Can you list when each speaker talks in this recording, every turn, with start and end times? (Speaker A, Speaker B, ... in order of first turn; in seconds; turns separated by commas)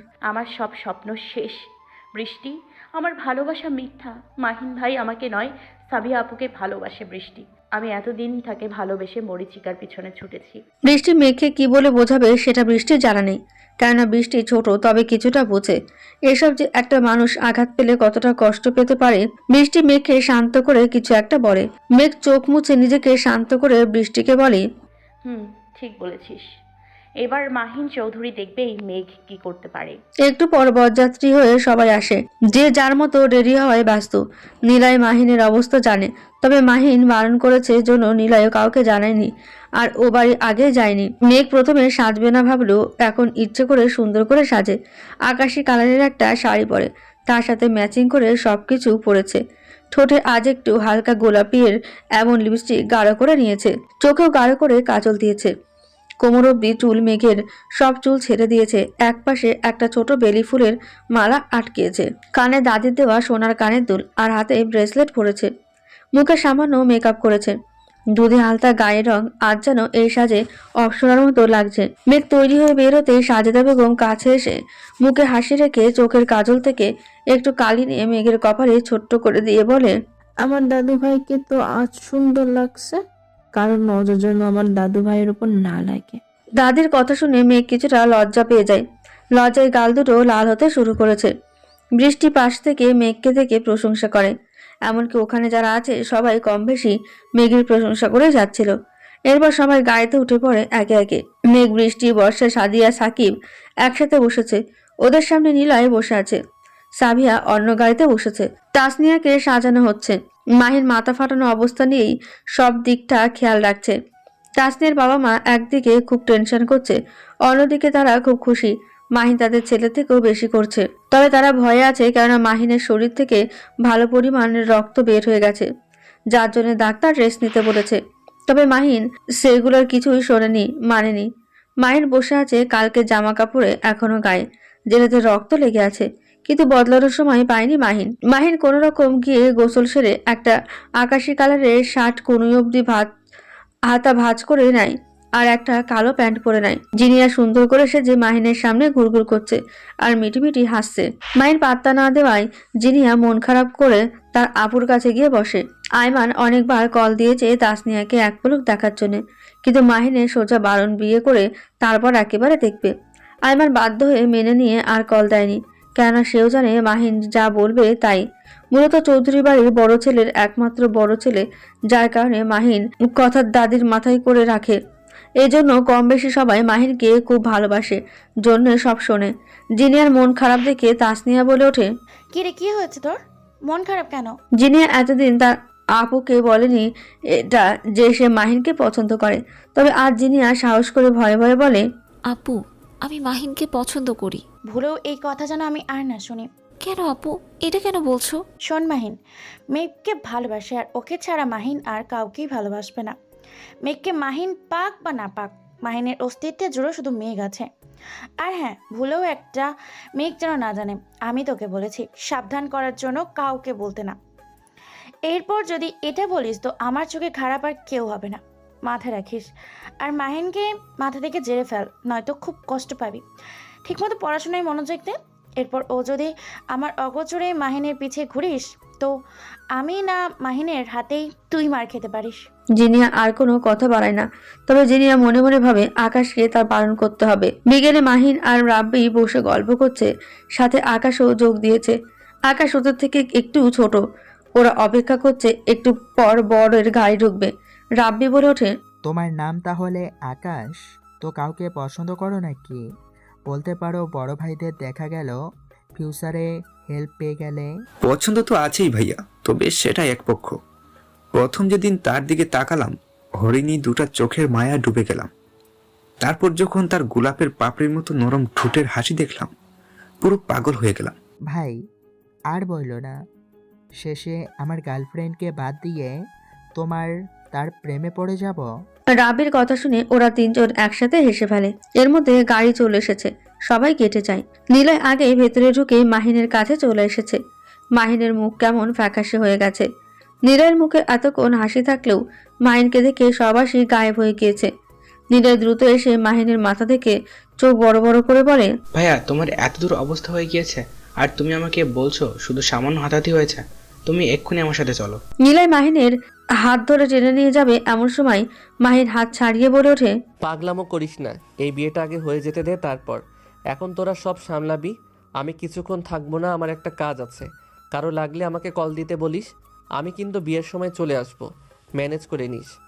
Speaker A: 0.2-10.6, Speaker B: 10.9-15.8, Speaker B: 16.3-24.6, Speaker A: 25.2-26.5, Speaker A: 27.2-30.0, Speaker B: 30.2-44.7, Speaker B: 45.3-49.4, Speaker B: 49.9-55.5, Speaker B: 56.2-65.5, Speaker B: 66.2-67.5, Speaker B: 68.2-79.9, Speaker C: 80.4-83.0, Speaker C: 83.5-86.2, Speaker B: 86.6-88.8, Speaker B: 89.4-91.3, Speaker B: 92.0-94.3, Speaker B: 94.9-98.7, Speaker B: 99.3-103.3, Speaker B: 103.8-106.4, Speaker B: 107.0-113.9, Speaker B: 114.6-125.7, Speaker B: 126.3-131.3, Speaker B: 131.8-143.1, Speaker B: 143.9-162.9, Speaker B: 163.5-168.2, Speaker B: 168.7-174.8, Speaker B: 175.4-181.9, Speaker D: 182.3-183.1, Speaker D: 183.7-184.3, Speaker B: 184.6-191.8, Speaker E: 192.3-194.4, Speaker D: 194.7-196.4, Speaker E: 196.8-198.4, Speaker D: 198.7-199.1, Speaker D: 199.7-203.1, Speaker D: 203.9-207.7, Speaker D: 208.4-214.2, Speaker D: 215.3-219.5, Speaker D: 220.0-223.2, Speaker D: 223.9-229.1, Speaker D: 229.8-232.4, Speaker B: 232.8-241.9, Speaker B: 242.5-244.0, Speaker B: 244.6-248.7, Speaker F: 249.1-252.8, Speaker F: 253.5-255.4, Speaker F: 255.9-257.7, Speaker G: 258.1-260.6, Speaker G: 261.3-265.3, Speaker G: 266.2-269.5, Speaker G: 270.2-271.1, Speaker F: 271.5-271.8, Speaker F: 272.5-273.1, Speaker F: 274.0-276.1, Speaker F: 276.8-278.7, Speaker B: 279.2-287.4, Speaker B: 288.0-289.9, Speaker B: 290.4-294.7, Speaker B: 295.3-298.7, Speaker H: 298.9-305.2, Speaker B: 305.4-306.1, Speaker B: 306.6-310.1, Speaker I: 310.4-313.2, Speaker I: 313.7-319.5, Speaker I: 320.0-322.7